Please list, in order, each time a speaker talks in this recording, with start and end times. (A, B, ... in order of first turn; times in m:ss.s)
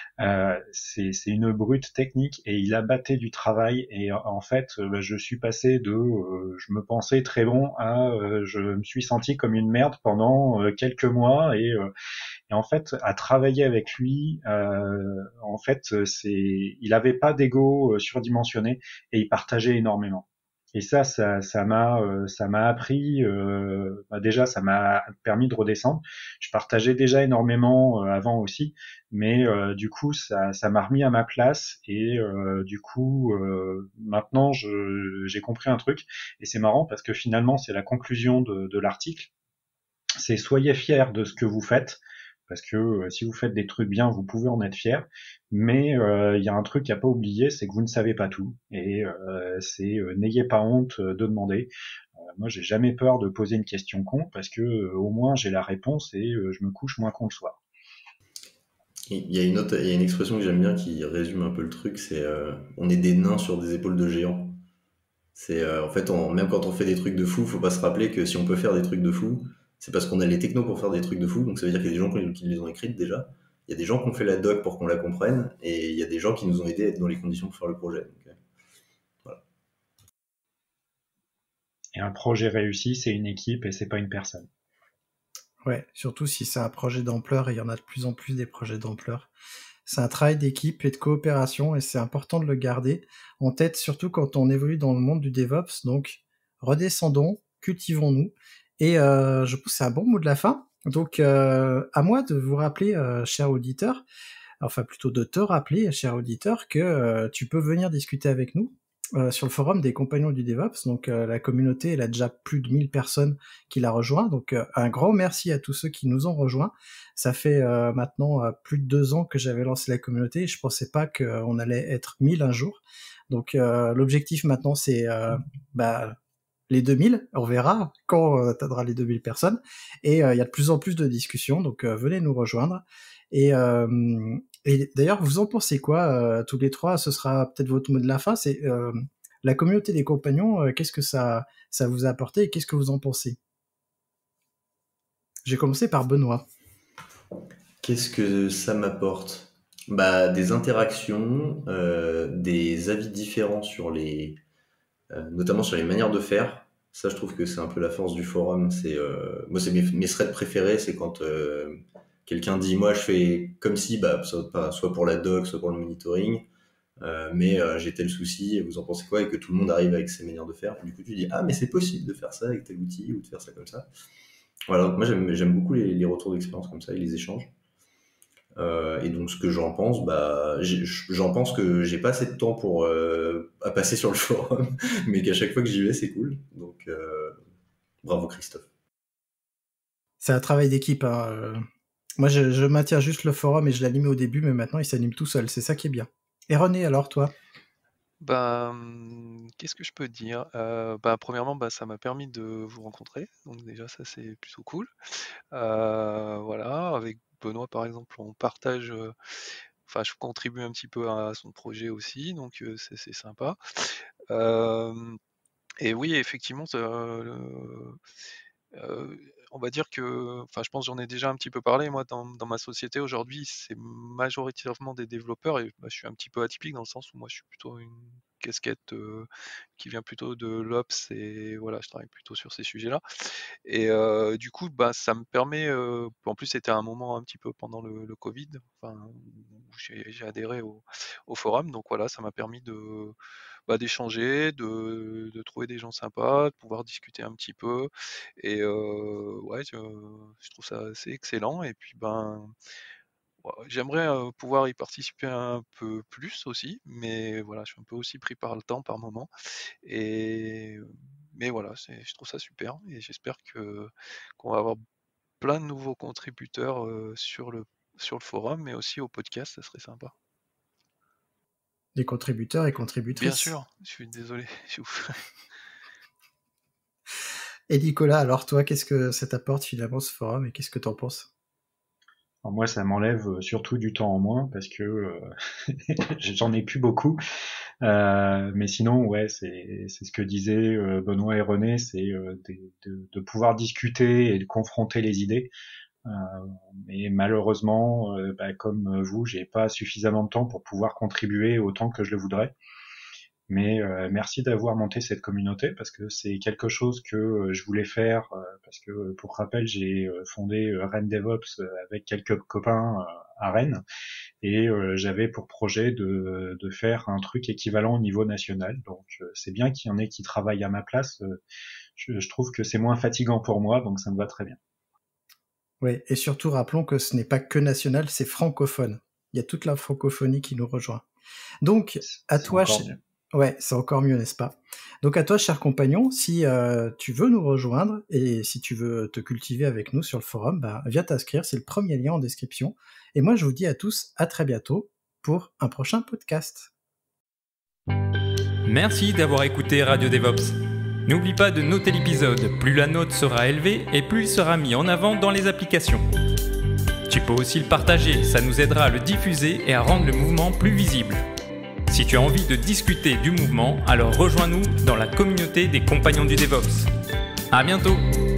0:00.2-0:11.9 A
0:12.5-0:39.3 A
0:40.2-0:57.6 A
0:59.1-1:04.6 B
1:05.4-1:18.4 B
1:22.0-1:24.5 A
1:25.6-1:29.3 C
1:29.9-1:44.0 C
1:44.6-2:06.2 C
2:06.7-2:23.4 C
2:25.5-2:26.4 C
2:27.8-2:34.4 B
2:35.1-2:46.5 B
2:47.0-2:53.9 B
2:54.7-2:57.5 B
2:58.6-3:07.4 B
3:08.0-3:08.7 B
3:10.2-3:11.7 C
3:12.2-3:17.3 C
3:18.2-3:24.9 D
3:25.5-3:29.1 D
3:29.9-3:35.2 D
3:35.8-3:38.0 D
3:38.7-3:53.0 D
3:53.6-4:03.2 D
4:03.7-4:12.5 D
4:13.4-4:19.3 D
4:19.8-4:24.8 D
4:25.4-4:30.1 D
4:32.0-4:33.6 C
4:33.2-4:35.2 D
4:37.7-4:41.3 C
4:42.4-4:47.2 A
4:47.8-4:55.5 A
4:56.0-5:02.6 A
5:03.5-5:13.8 A
5:14.4-5:21.4 A
5:22.0-5:24.6 A
5:25.8-5:31.0 C
5:31.6-5:46.7 C
5:32.0-5:33.0 A
5:48.7-5:56.0 E
5:57.1-6:01.2 E
6:01.9-6:06.9 E
6:07.5-6:08.0 E